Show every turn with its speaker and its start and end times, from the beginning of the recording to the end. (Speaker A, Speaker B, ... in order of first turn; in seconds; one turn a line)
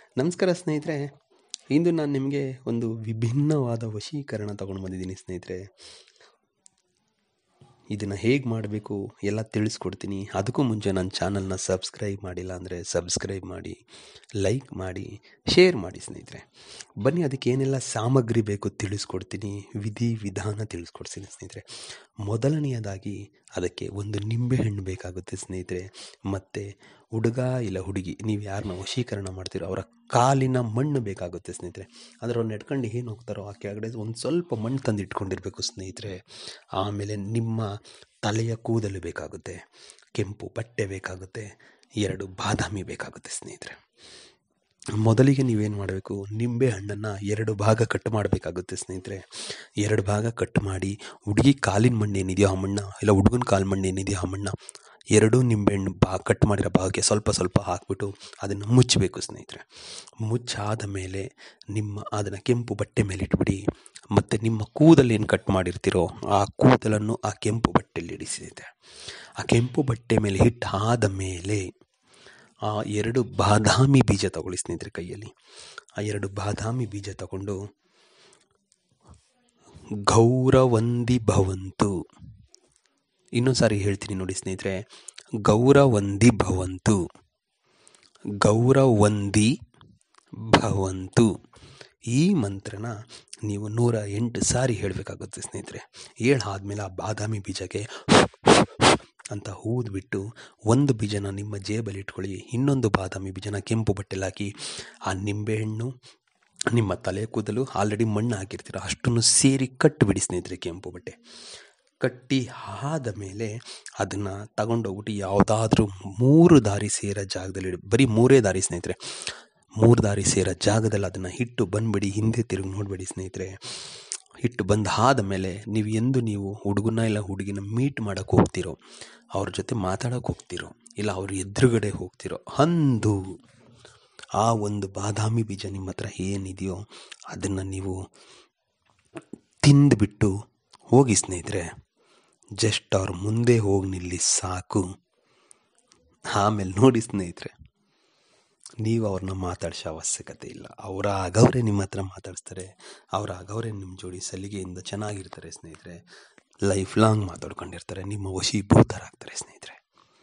Speaker A: 0.2-1.1
Speaker A: 1.7-5.6
Speaker A: 7.9-13.8
Speaker A: 14.4-16.4
Speaker A: 17.0-21.6
Speaker A: 22.2-36.2
Speaker A: 36.8-37.7
Speaker A: 38.2-39.6
Speaker A: 40.2-41.5
Speaker A: 42.0-43.8
Speaker A: 45.0-49.2
Speaker A: 49.8-54.5
Speaker A: 55.1-59.6
Speaker A: 60.2-63.6
Speaker A: 64.1-68.7
Speaker A: 69.4-71.7
Speaker A: 72.7-75.3
Speaker A: 76.0-77.6
Speaker A: 80.1-81.9
Speaker A: 83.4-84.8
Speaker A: 85.4-87.0
Speaker A: 88.4-89.5
Speaker A: 90.5-91.3
Speaker A: 92.1-92.9
Speaker A: 93.5-104.5
Speaker A: 105.1-105.9
Speaker A: 106.7-111.2
Speaker A: 112.0-119.0
Speaker A: 119.8-123.5
Speaker A: 124.4-128.8
Speaker A: 129.4-133.2
Speaker A: 134.4-136.8
Speaker A: 137.3-138.0
Speaker A: 139.6-140.3
Speaker A: 140.9-141.7
Speaker A: 142.6-144.8
Speaker A: 146.3-147.5
Speaker A: 148.8-156.0
Speaker A: 156.7-159.8